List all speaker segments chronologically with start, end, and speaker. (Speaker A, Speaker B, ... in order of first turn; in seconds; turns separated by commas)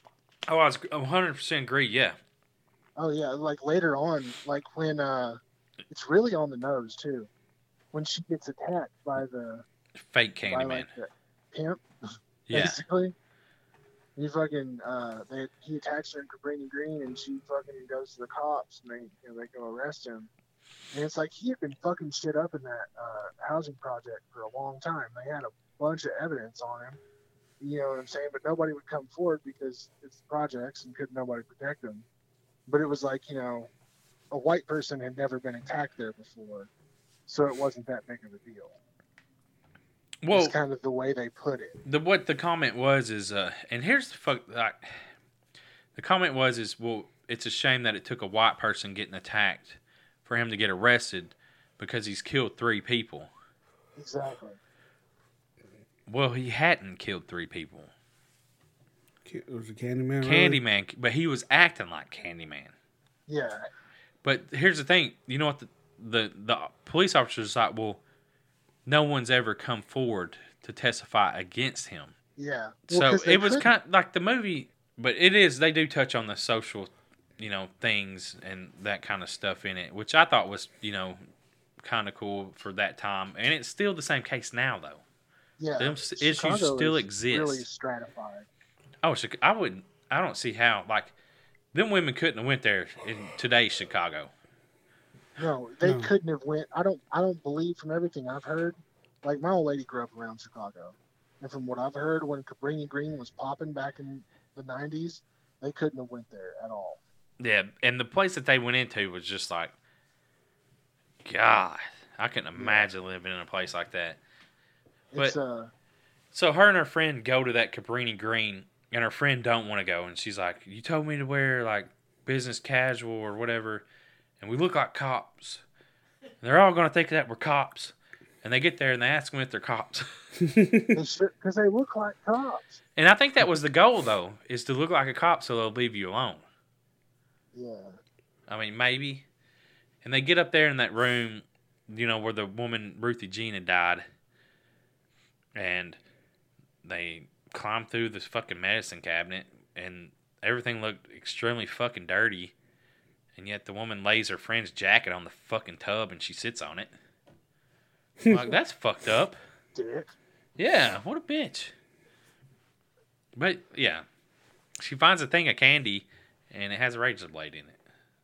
Speaker A: 0.5-2.2, Speaker B: 3.0-7.3, Speaker B: 7.9-9.7, Speaker A: 10.0-10.9, Speaker B: 10.5-11.8, Speaker A: 12.5-12.8, Speaker B: 12.5-13.2, Speaker B: 14.2-20.3, Speaker B: 20.9-27.0, Speaker B: 27.6-32.1, Speaker B: 32.7-33.7, Speaker B: 34.3-36.7, Speaker B: 37.3-38.8, Speaker A: 40.2-40.6, Speaker B: 40.3-41.8, Speaker A: 41.9-45.0, Speaker A: 46.0-53.3, Speaker B: 54.0-54.6, Speaker A: 56.1-57.9, Speaker C: 59.2-60.6, Speaker A: 60.2-62.7, Speaker B: 63.3-63.7, Speaker A: 64.2-68.0, Speaker A: 68.9-72.1, Speaker B: 72.4-73.7, Speaker A: 72.9-81.2, Speaker A: 81.8-85.0, Speaker B: 85.6-88.5, Speaker A: 85.8-87.7, Speaker A: 89.0-91.1, Speaker A: 91.7-94.3, Speaker B: 95.4-107.0, Speaker C: 95.8-96.1, Speaker A: 107.4-109.7, Speaker A: 111.2-114.2, Speaker B: 112.6-112.9, Speaker B: 115.1-115.7, Speaker A: 116.3-123.9, Speaker A: 124.4-125.6, Speaker A: 126.4-130.1, Speaker C: 130.4-131.0, Speaker B: 130.9-132.8, Speaker A: 133.0-136.4, Speaker B: 137.5-138.0, Speaker A: 138.5-139.2, Speaker A: 140.0-144.1, Speaker A: 145.6-146.0, Speaker A: 146.8-152.5, Speaker A: 153.3-156.9, Speaker C: 158.2-158.6, Speaker A: 158.3-159.4, Speaker B: 159.8-160.1, Speaker A: 160.6-161.7, Speaker A: 163.4-164.1, Speaker A: 164.8-167.8